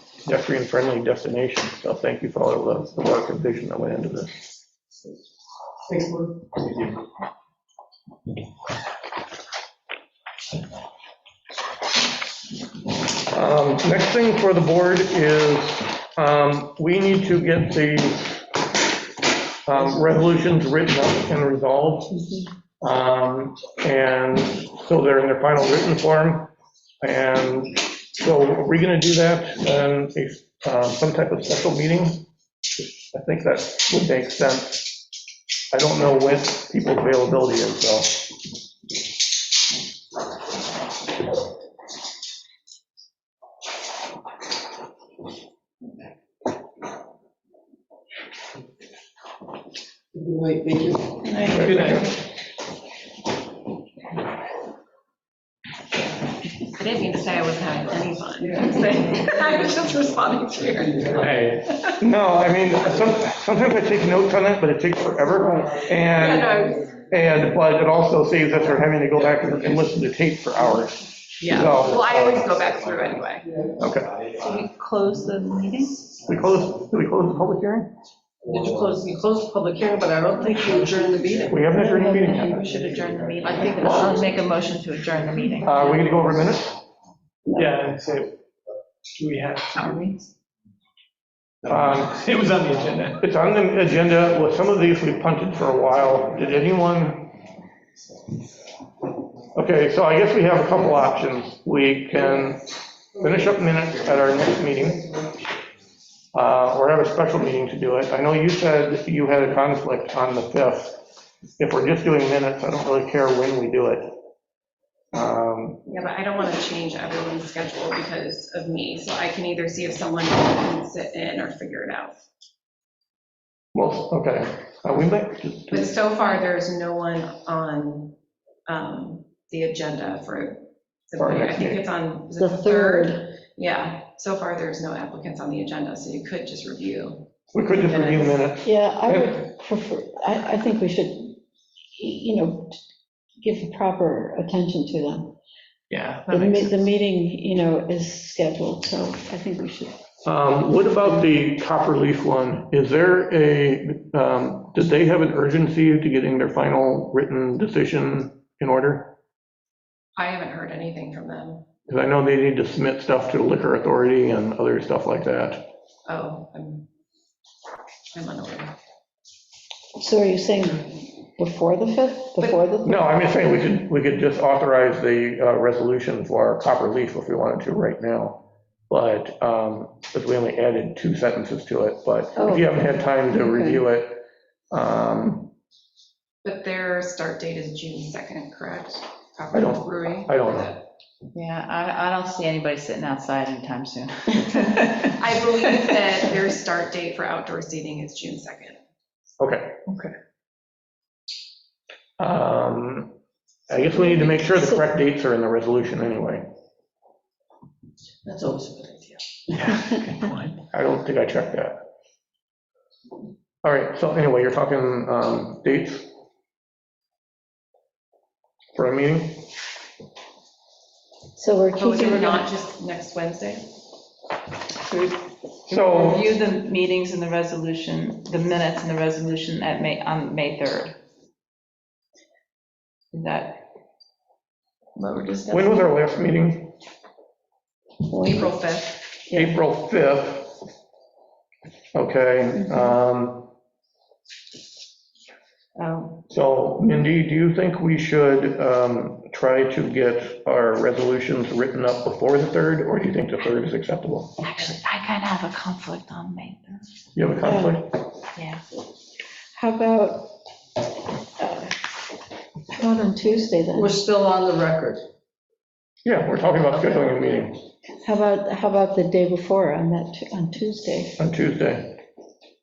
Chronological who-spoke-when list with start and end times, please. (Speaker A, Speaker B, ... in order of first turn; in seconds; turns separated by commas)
Speaker A: 0.2-4.4, Speaker B: 5.9-6.4, Speaker A: 13.3-18.4, Speaker A: 19.6-22.2, Speaker A: 22.8-32.2, Speaker A: 33.0-35.0, Speaker A: 35.7-38.3, Speaker C: 51.3-52.0, Speaker A: 51.4-52.1, Speaker D: 51.7-52.0, Speaker C: 56.7-62.0, Speaker D: 61.2-61.6, Speaker A: 62.0-66.6, Speaker E: 65.3-65.8, Speaker C: 66.1-66.9, Speaker D: 66.2-66.9, Speaker A: 67.1-72.2, Speaker D: 68.7-69.9, Speaker C: 71.4-73.5, Speaker D: 71.5-74.7, Speaker A: 73.8-74.1, Speaker F: 74.4-76.1, Speaker D: 76.1-76.7, Speaker A: 76.2-77.9, Speaker D: 78.4-79.0, Speaker B: 78.5-81.6, Speaker D: 80.1-84.6, Speaker A: 81.5-82.6, Speaker E: 81.7-82.5, Speaker F: 82.2-86.1, Speaker C: 82.4-84.5, Speaker B: 83.5-83.8, Speaker A: 83.8-84.2, Speaker D: 85.1-86.8, Speaker A: 85.6-86.8, Speaker E: 87.5-87.8, Speaker D: 87.5-88.3, Speaker D: 89.1-90.1, Speaker F: 89.7-90.2, Speaker D: 91.6-93.3, Speaker A: 91.7-92.3, Speaker A: 93.2-97.3, Speaker D: 94.3-97.0, Speaker A: 99.5-105.0, Speaker A: 106.3-111.1, Speaker A: 111.6-114.1, Speaker A: 115.1-115.8, Speaker C: 115.8-122.2, Speaker A: 123.7-125.9, Speaker C: 125.7-128.1, Speaker C: 128.7-138.4, Speaker A: 131.2-131.8, Speaker E: 132.3-133.3, Speaker A: 137.5-139.4, Speaker E: 138.6-141.4, Speaker E: 141.9-142.8, Speaker E: 143.4-145.3, Speaker E: 146.3-149.9, Speaker A: 150.2-159.1, Speaker C: 160.2-161.6, Speaker A: 161.9-165.7, Speaker C: 166.1-166.8, Speaker C: 168.1-168.7, Speaker E: 170.0-173.0, Speaker A: 172.8-185.5, Speaker E: 182.4-182.7, Speaker E: 183.3-183.8, Speaker C: 186.4-190.8, Speaker A: 189.5-190.7, Speaker F: 191.3-195.2, Speaker C: 195.1-198.8, Speaker A: 199.4-199.8, Speaker A: 202.2-203.2, Speaker A: 203.7-206.5, Speaker E: 203.9-204.8, Speaker B: 208.2-209.6, Speaker D: 209.5-210.5, Speaker A: 210.7-211.8, Speaker A: 213.6-216.1, Speaker A: 218.8-219.5, Speaker E: 221.4-222.4, Speaker C: 221.8-223.7, Speaker F: 224.8-231.0, Speaker A: 225.7-226.3, Speaker F: 233.1-233.6, Speaker C: 234.9-235.9, Speaker A: 235.5-236.7, Speaker E: 238.1-238.6, Speaker C: 238.2-239.0, Speaker E: 239.3-239.6, Speaker A: 239.3-240.5, Speaker A: 241.9-243.5, Speaker C: 245.8-246.2, Speaker A: 246.3-254.4, Speaker F: 254.4-256.9, Speaker A: 257.1-258.0, Speaker E: 257.4-257.8, Speaker E: 259.5-260.3, Speaker E: 261.4-261.7, Speaker E: 262.7-264.0, Speaker B: 263.7-265.0, Speaker A: 266.0-267.6, Speaker B: 266.7-267.1, Speaker E: 268.0-271.2, Speaker A: 271.2-272.0